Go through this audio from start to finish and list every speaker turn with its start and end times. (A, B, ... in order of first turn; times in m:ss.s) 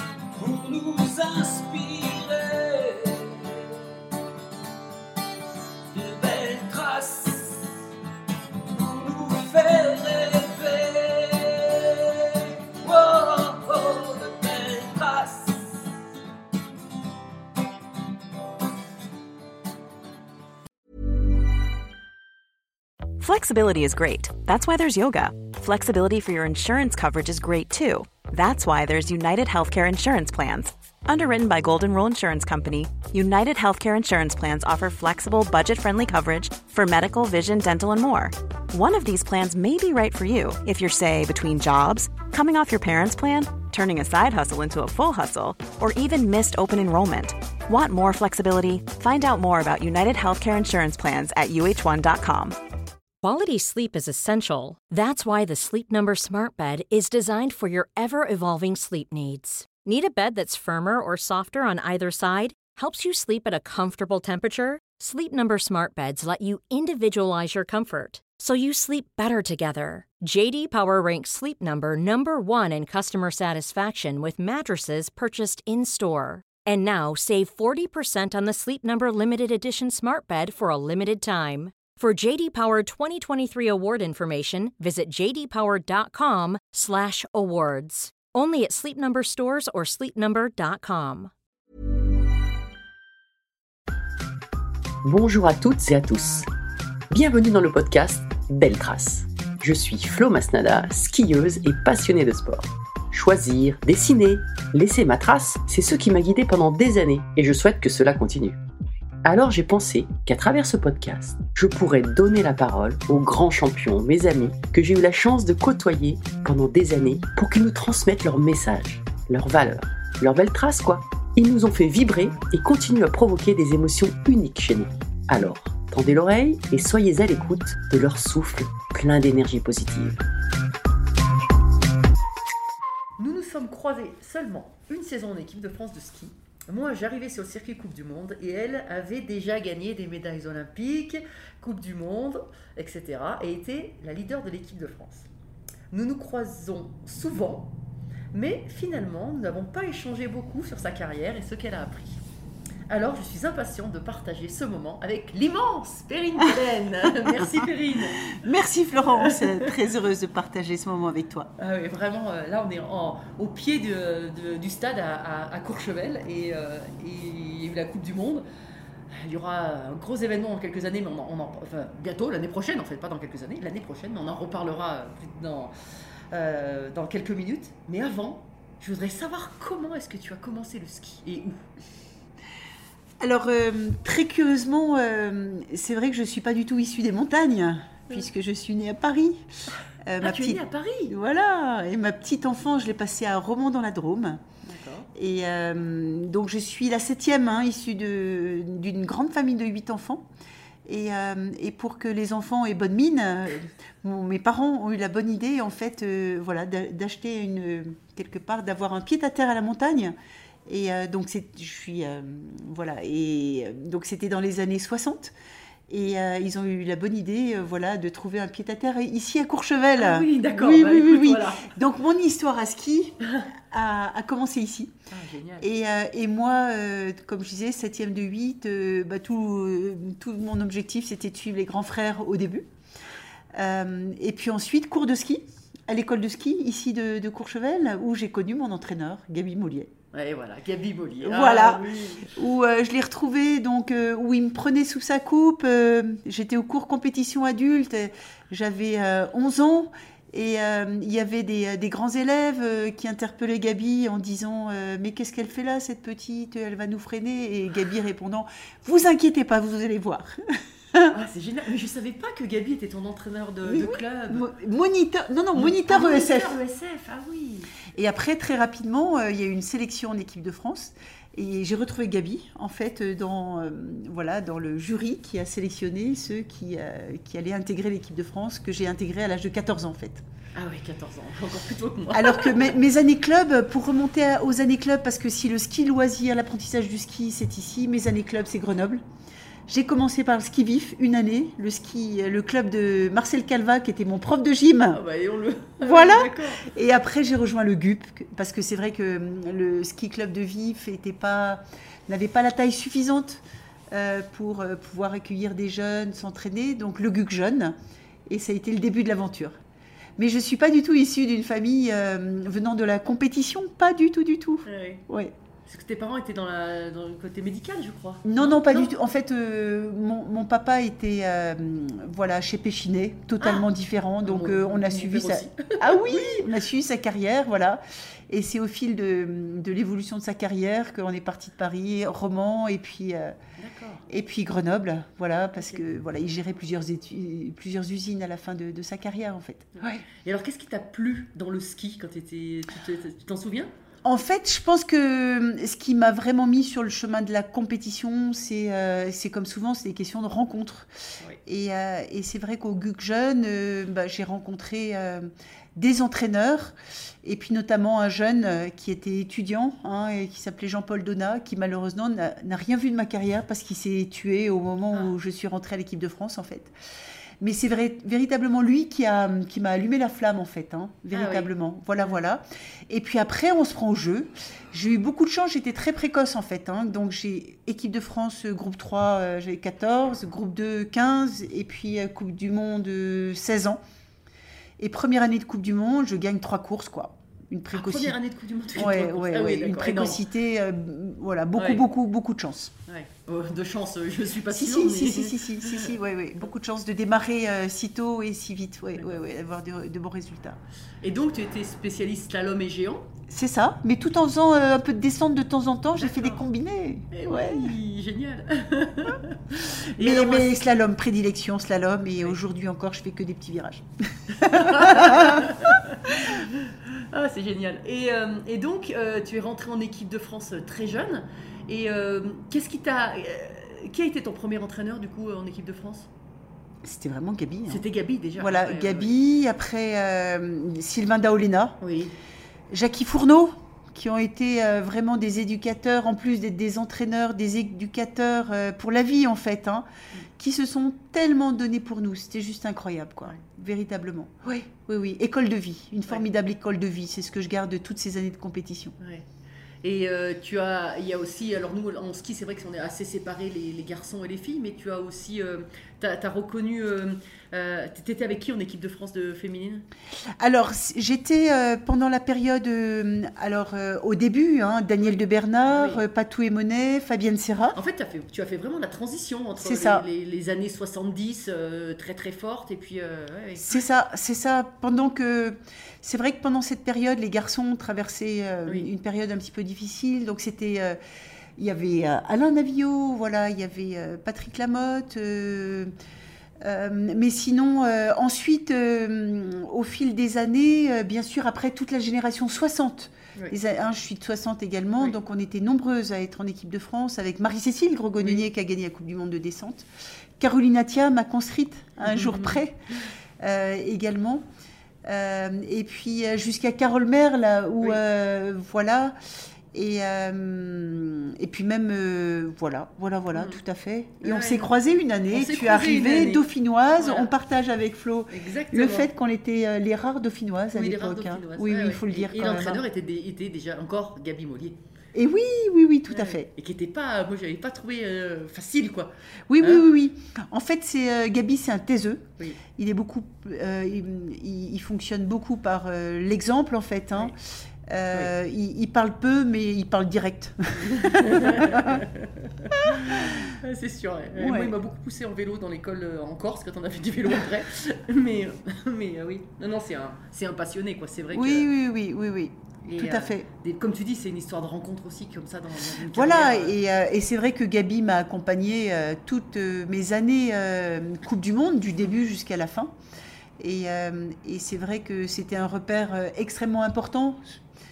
0:00.4-0:03.6 A
0:05.9-0:07.6 A
0:08.7-0:15.7 A
0:23.2-0:52.6 B
0:53.2-1:31.3 C
1:35.0-1:36.5 D
1:37.1-1:48.6 D
1:49.2-2:10.2 D
2:13.2-2:25.3 E
2:25.9-2:27.8 E
2:28.3-2:32.2 E
2:32.9-2:38.3 E
2:37.2-2:37.7 F
2:38.2-2:41.5 F
2:39.2-2:39.7 E
2:41.6-2:48.5 E
2:49.1-2:55.7 E
2:56.3-3:01.6 E
3:03.2-3:09.4 F
3:10.0-3:14.4 F
3:10.2-3:11.2 E
3:14.6-3:15.1 E
3:15.1-3:20.3 F
3:20.8-3:30.2 F
3:30.7-3:35.4 F
3:35.9-3:45.0 F
3:40.0-3:41.7 E
3:45.1-3:45.7 E
3:45.6-3:52.7 F
3:53.5-3:59.9 F
4:00.1-4:02.3 E
4:01.2-4:20.4 F
4:21.1-4:24.5 E
4:23.6-4:26.6 F
4:25.6-4:27.8 E
4:27.9-4:40.2 F
4:40.6-4:42.7 E
4:42.1-4:49.0 F
4:49.7-4:55.0 F
4:54.9-4:56.7 E
4:55.8-5:07.8 F
5:08.3-5:09.6 F
5:10.2-5:15.4 F
5:14.7-5:15.0 E
5:15.7-5:18.9 E
5:18.2-5:33.4 F
5:23.4-5:23.7 E
5:24.2-5:26.5 E
5:33.6-5:34.0 E
5:34.1-5:40.0 F
5:39.8-5:43.7 E
5:44.0-5:50.9 F
5:51.4-6:06.7 F
6:07.4-6:23.8 F
6:11.1-6:11.5 E
6:24.8-6:28.2 F
6:27.7-6:30.2 E
6:28.7-6:32.7 F
6:31.6-6:31.8 E
6:32.9-6:35.9 E
6:34.5-6:40.6 F
6:41.0-6:43.1 E
6:43.3-6:47.8 F
6:46.0-6:46.4 E
6:47.1-6:50.6 E
6:50.0-6:56.2 F
6:54.3-7:06.1 E
7:06.8-7:07.8 F
7:07.7-7:09.2 E
7:08.4-7:11.8 F
7:11.8-7:12.1 E
7:12.7-7:29.0 F
7:29.0-7:29.3 E
7:29.8-7:39.9 E
7:40.4-7:47.8 F
7:45.7-7:46.0 E
7:47.7-7:53.8 E
7:49.6-7:50.0 F
7:53.6-8:01.0 F
8:01.6-8:05.9 F
8:06.6-8:19.9 F
8:20.4-8:22.8 F
8:22.0-8:22.6 E
8:23.4-8:24.4 F
8:25.0-8:29.2 F
8:29.7-8:42.8 F
8:34.2-8:34.7 E
8:35.3-8:37.3 E
8:38.3-8:39.1 E
8:40.7-8:44.8 E
8:45.1-8:46.5 F
8:46.1-8:49.9 E
8:49.5-9:02.0 F
9:00.8-9:11.7 E
9:02.8-9:03.5 F
9:04.3-9:04.8 F
9:11.3-9:13.5 F
9:12.8-9:16.8 E
9:16.1-9:23.0 F
9:23.6-9:27.6 F